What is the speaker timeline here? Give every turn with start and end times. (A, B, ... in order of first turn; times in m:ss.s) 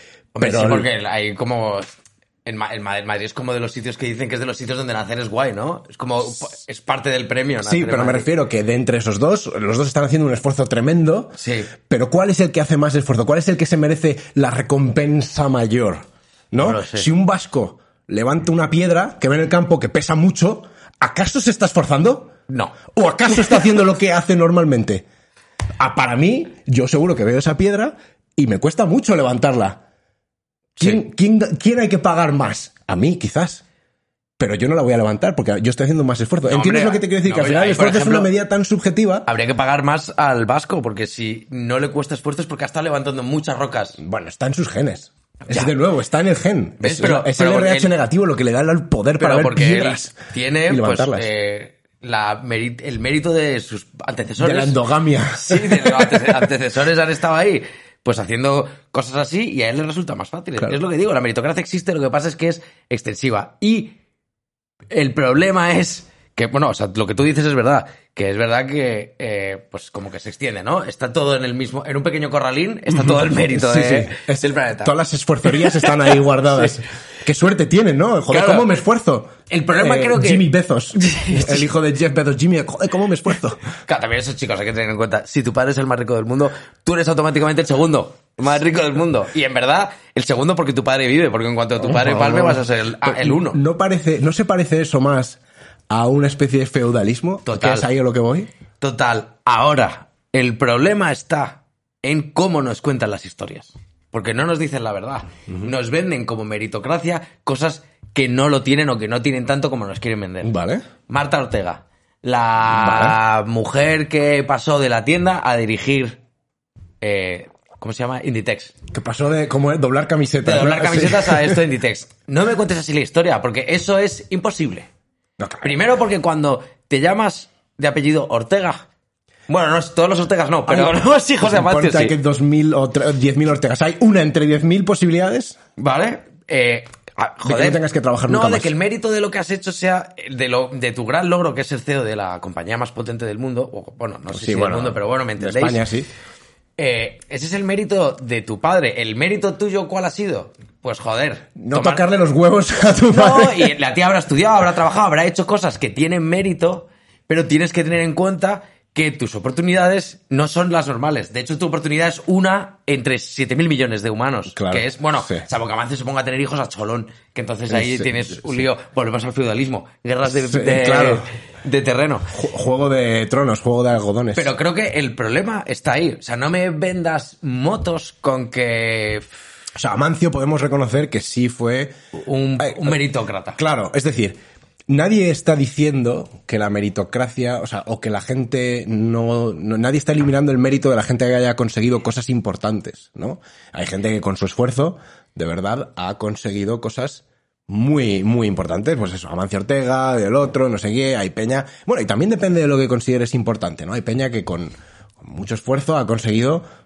0:00.3-0:08.3 A
0:00.4-0:00.9 B
0:07.6-0:22.3 B
0:11.4-0:11.7 A
0:16.6-0:17.1 A
0:22.5-0:22.8 A
0:22.9-0:25.0 B
0:25.8-0:29.8 B
0:30.8-0:33.6 B
0:34.4-0:39.3 B
0:36.4-0:38.3 A
0:39.2-0:44.0 A
0:44.0-0:50.2 B
0:45.5-0:45.7 A
0:46.8-0:47.9 A
0:49.2-0:54.8 A
0:50.7-0:51.3 B
0:54.4-0:56.4 B
0:55.3-1:04.0 A
1:04.9-1:14.9 A
1:12.9-1:23.6 B
1:15.5-1:15.9 A
1:18.3-1:18.7 A
1:19.5-1:21.7 A
1:23.8-1:33.6 A
1:31.8-1:38.5 B
1:37.4-1:37.9 A
1:38.8-1:50.5 A
1:50.4-1:50.8 B
1:51.1-1:56.2 A
1:52.7-1:53.2 B
1:57.0-1:58.7 A
1:58.9-2:01.6 B
2:00.4-2:04.9 A
2:05.4-2:05.8 B
2:05.6-2:08.8 A
2:09.5-2:12.2 A
2:10.7-2:15.6 B
2:15.8-2:25.8 A
2:17.4-2:18.7 B
2:24.3-2:26.1 B
2:26.8-2:32.0 A
2:31.6-2:33.7 B
2:33.1-2:52.3 A
2:44.5-2:45.4 B
2:47.7-2:48.6 B
2:50.3-2:51.2 B
2:52.3-2:54.5 B
2:54.3-2:59.3 A
2:59.7-3:01.9 B
3:02.1-3:03.6 A
3:02.6-3:03.0 B
3:03.6-3:04.4 B
3:04.9-3:26.6 B